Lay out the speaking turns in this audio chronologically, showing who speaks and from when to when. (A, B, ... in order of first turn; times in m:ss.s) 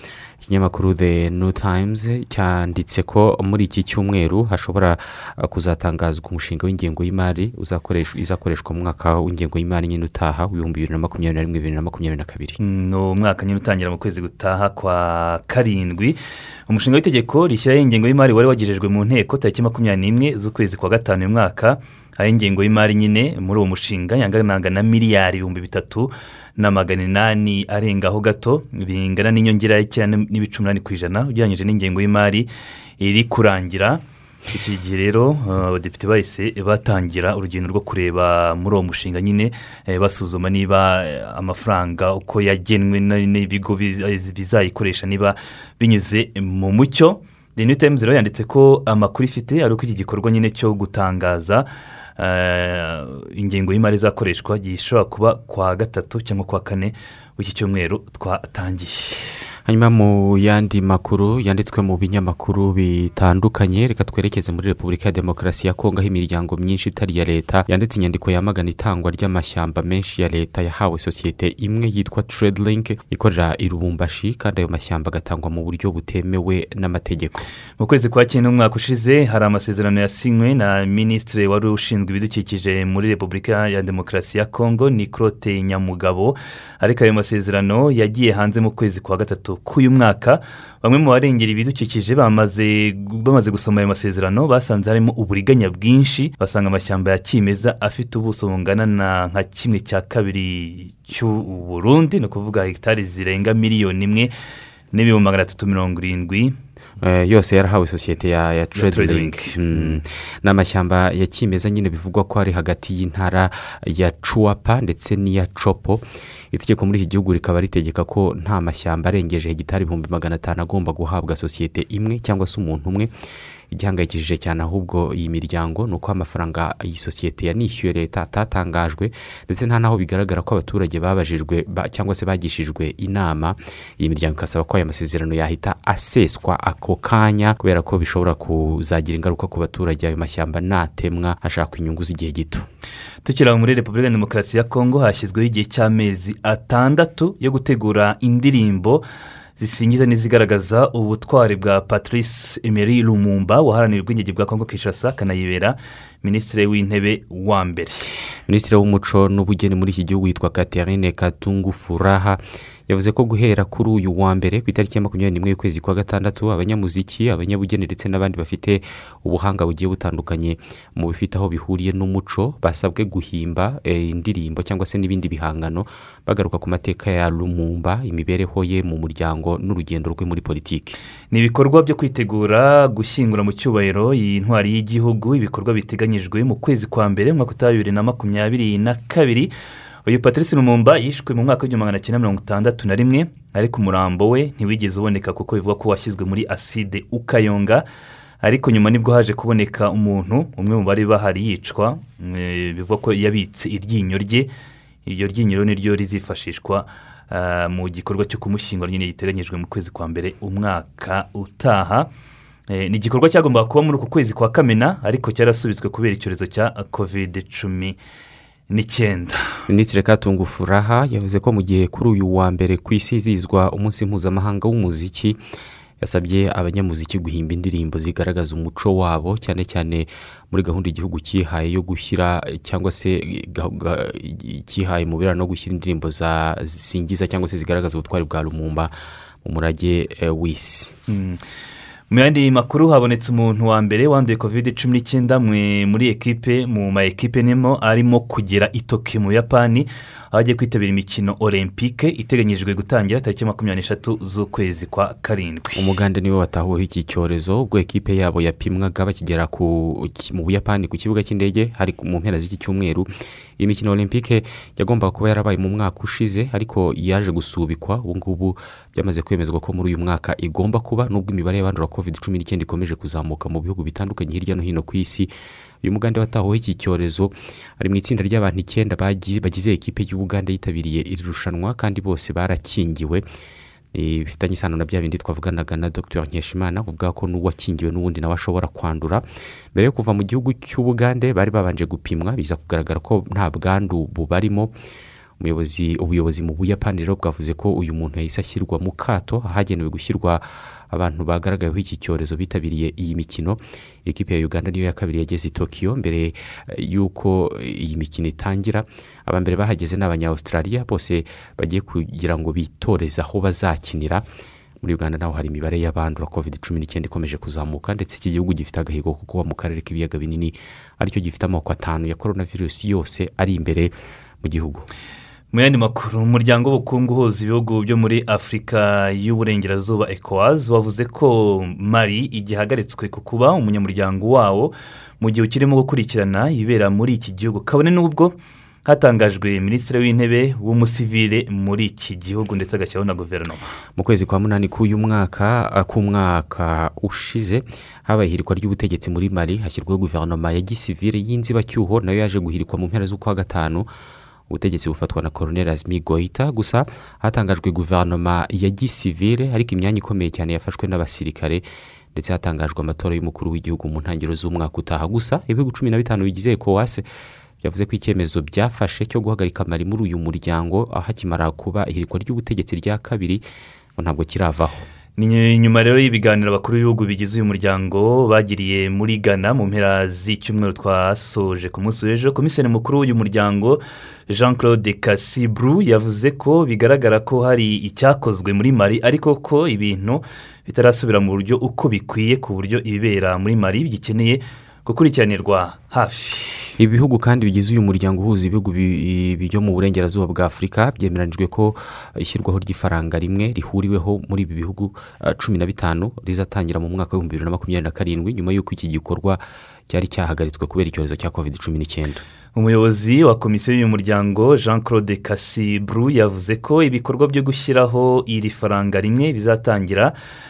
0:00.4-0:12.6 A
0:12.6-0:32.5 B
0:33.0-0:51.7 B
0:52.2-0:59.2 B
0:59.7-1:17.5 A
1:17.8-1:44.3 B
1:44.9-1:46.6 B
1:47.0-2:03.1 A
1:48.8-1:50.0 B
2:03.7-2:22.7 A
2:23.2-2:29.0 B
2:29.6-2:38.0 B
2:38.5-3:01.0 A
3:01.3-3:09.5 B
3:10.1-3:17.9 B
3:18.4-3:24.5 B
3:25.0-3:32.1 B
3:32.7-3:38.0 B
3:38.7-3:39.4 B
3:39.7-3:45.4 A
3:46.0-4:01.0 A
4:01.1-4:01.4 B
4:02.1-4:15.9 B
4:15.7-4:23.1 A
4:23.6-4:43.2 A
4:43.9-4:54.7 A
4:55.4-5:14.3 A
5:14.8-5:24.9 A
5:25.5-5:38.4 B
5:38.9-5:43.7 B
5:44.0-5:53.9 A
5:54.5-6:07.0 A
6:07.6-6:13.4 A
6:14.0-6:14.9 A
6:15.2-6:36.7 B
6:36.8-6:52.2 A
6:52.6-7:00.2 B